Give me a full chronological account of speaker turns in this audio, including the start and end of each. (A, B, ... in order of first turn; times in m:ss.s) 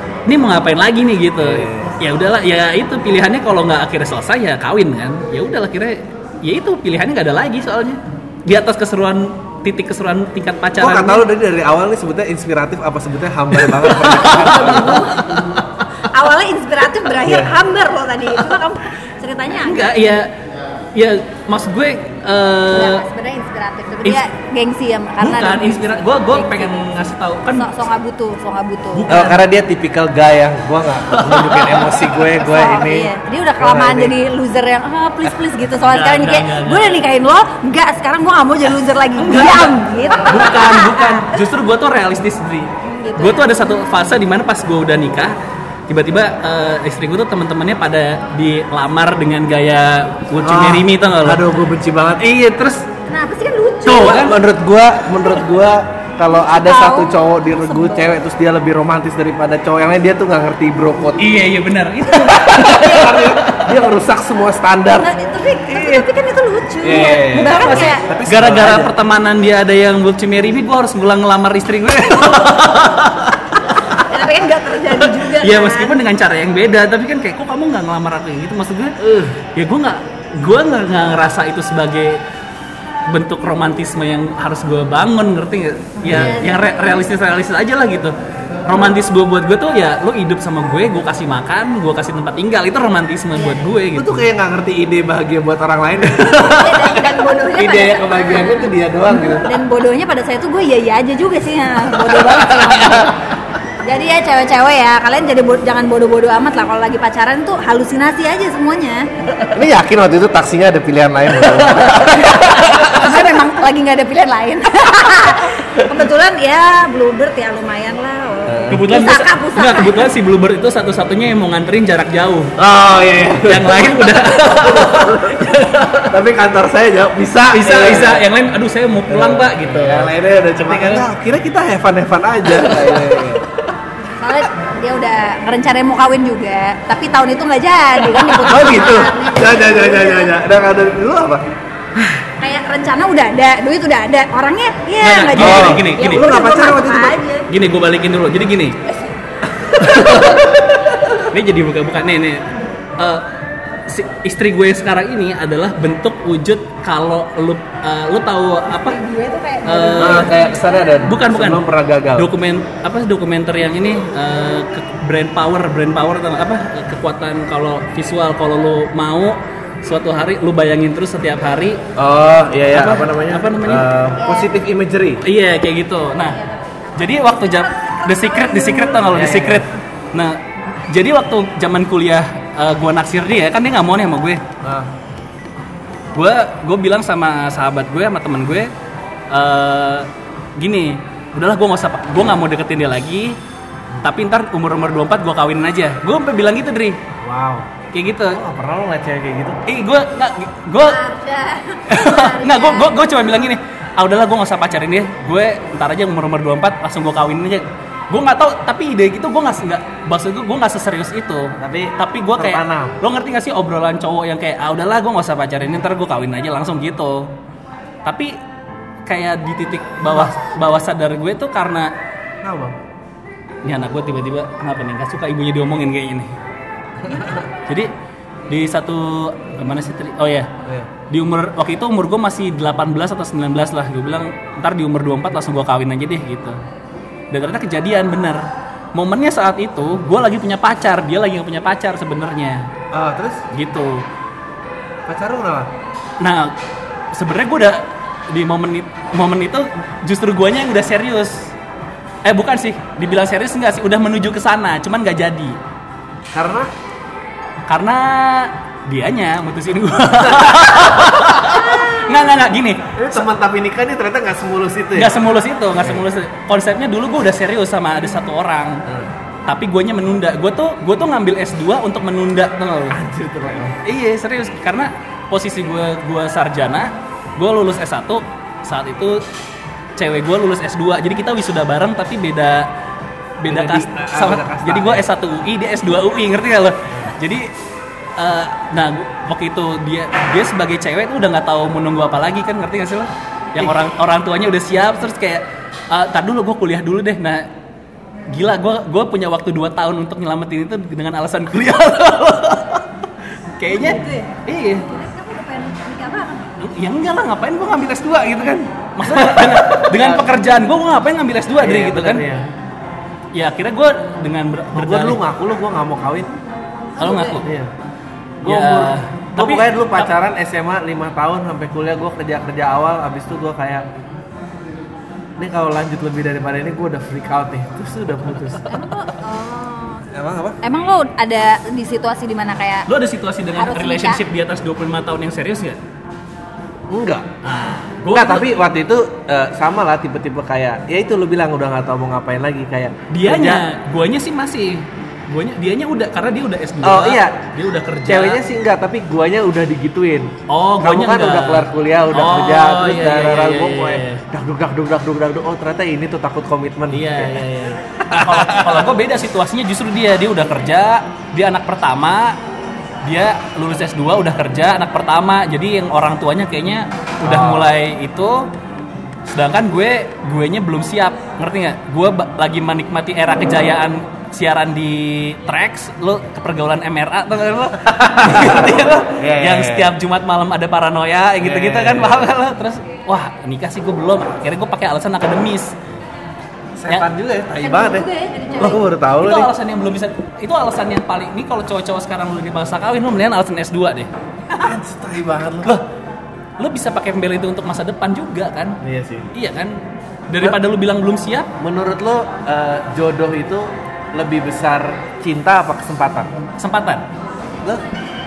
0:00.3-0:11.2 A
0:01.4-0:01.9 B
0:10.8-0:15.1 B
0:13.6-0:15.0 A
0:13.9-0:15.3 C
0:16.1-0:20.1 C
0:17.2-0:17.5 B
0:19.6-0:20.3 A
0:20.9-0:23.0 A
0:22.7-0:26.8 C
0:25.2-0:27.8 A
0:27.5-0:29.1 C
0:28.9-0:29.4 A
0:29.1-0:34.1 B
0:31.1-0:32.2 A
0:32.4-0:41.4 C
0:35.6-0:37.0 A
0:39.2-0:45.4 A
0:42.8-0:43.9 C
0:45.9-0:51.5 A
0:50.4-0:52.3 B
0:52.2-0:52.8 A
0:53.1-0:54.2 C
0:53.8-0:54.4 A
0:53.9-1:01.3 B
0:56.3-0:58.1 C
1:01.2-1:03.8 A
1:02.1-1:05.1 B
1:05.0-1:08.0 C
1:05.7-1:06.0 A
1:06.8-1:08.9 B
1:07.4-1:14.2 A
1:14.0-1:16.0 C
1:14.9-1:22.2 A
1:19.0-1:19.4 B
1:23.1-1:28.1 A
1:26.0-1:27.0 C
1:26.1-1:26.4 B
1:28.6-1:34.2 A
1:33.9-1:36.8 B
1:36.1-1:36.7 A
1:36.4-1:43.2 C
1:37.4-1:39.5 B
1:42.5-1:43.0 A
1:43.8-1:49.1 C
1:49.5-1:52.8 B
1:51.4-1:53.0 A
1:52.1-2:00.1 C
1:58.4-1:58.8 B
1:58.7-2:02.5 A
2:02.6-2:05.5 B
2:03.4-2:06.2 A
2:06.1-2:08.2 B
2:07.5-2:10.1 A
2:09.1-2:13.4 B
2:10.6-2:11.1 A
2:12.5-2:13.3 A
2:14.0-2:20.3 C
2:18.3-2:21.4 B
2:22.2-2:27.5 C
2:25.0-2:26.3 A
2:25.4-2:27.2 B
2:27.5-2:28.8 A
2:29.7-2:32.4 A
2:30.0-2:30.4 B
2:33.0-2:33.2 A
2:33.9-2:39.0 A
2:38.7-2:40.9 C
2:39.6-2:40.4 A
2:40.0-2:42.3 B
2:41.0-2:51.8 A
2:52.0-2:55.2 B
2:52.7-2:53.9 A
2:54.2-2:54.5 C
2:55.2-2:56.4 A
2:56.2-2:59.2 C
2:57.0-3:04.4 A
2:59.1-2:59.6 B
3:04.6-3:04.9 B
3:06.1-3:08.7 A
3:09.3-3:13.4 A
3:14.0-3:17.0 A
3:17.2-3:17.7 B
3:17.9-3:18.4 A
3:18.3-3:19.6 B
3:19.7-3:21.0 A
3:20.8-3:23.0 C
3:21.9-3:37.3 A
3:31.6-3:33.0 B
3:38.0-3:38.4 A
3:39.0-3:41.9 A
3:42.4-3:42.8 B
3:43.6-3:46.3 A
3:47.0-3:47.4 B
3:48.5-3:50.5 A
3:51.1-3:56.6 A
3:57.3-3:58.4 A
3:58.9-4:02.7 A
4:02.9-4:03.4 B
4:03.5-4:04.0 A
4:05.1-4:05.7 B
4:06.2-4:06.5 A
4:07.1-4:11.5 A
4:12.2-4:15.6 A
4:16.3-4:16.7 B
4:17.7-4:23.2 A
4:20.2-4:21.2 B
4:21.5-4:22.2 C
4:23.0-4:25.2 B
4:25.0-4:28.8 A
4:29.4-4:33.0 A
4:32.9-4:33.8 B
4:33.8-4:39.2 A
4:40.0-4:42.7 A
4:43.4-4:47.5 A
4:43.4-4:45.0 B
4:48.2-4:57.5 A
4:58.3-5:02.8 A
5:03.6-5:04.8 A
5:03.7-5:06.5 C
5:06.6-5:12.2 A
5:09.1-5:10.3 B
5:11.6-5:12.4 B
5:13.3-5:15.2 A
5:14.7-5:16.3 B
5:17.0-5:17.4 C
5:17.0-5:17.4 A
5:17.4-5:17.7 B
5:18.4-5:23.8 B
5:18.4-5:20.1 A
5:25.4-5:28.7 B
5:28.7-5:30.1 C
5:30.1-5:30.6 B
5:30.6-5:32.9 C
5:32.9-5:35.8 A
5:33.5-5:34.2 C
5:36.9-5:37.3 B
5:37.4-5:38.4 A
5:38.1-5:43.6 B
5:43.1-5:48.4 A
5:46.8-5:47.5 B
5:48.0-5:57.4 B
5:50.5-5:54.2 A
5:56.9-6:02.4 A
5:58.0-5:58.9 B
6:03.0-6:08.5 A
6:07.2-6:07.7 B
6:09.3-6:25.8 A
6:18.0-6:19.9 B
6:21.4-6:22.3 B
6:26.8-6:28.0 B
6:27.6-6:28.8 C
6:28.6-6:29.5 B
6:29.2-6:34.7 A
6:34.6-6:35.8 B
6:36.6-6:38.8 A
6:38.8-6:39.3 B
6:39.3-6:41.5 A
6:41.6-6:46.3 B
6:46.6-6:47.0 A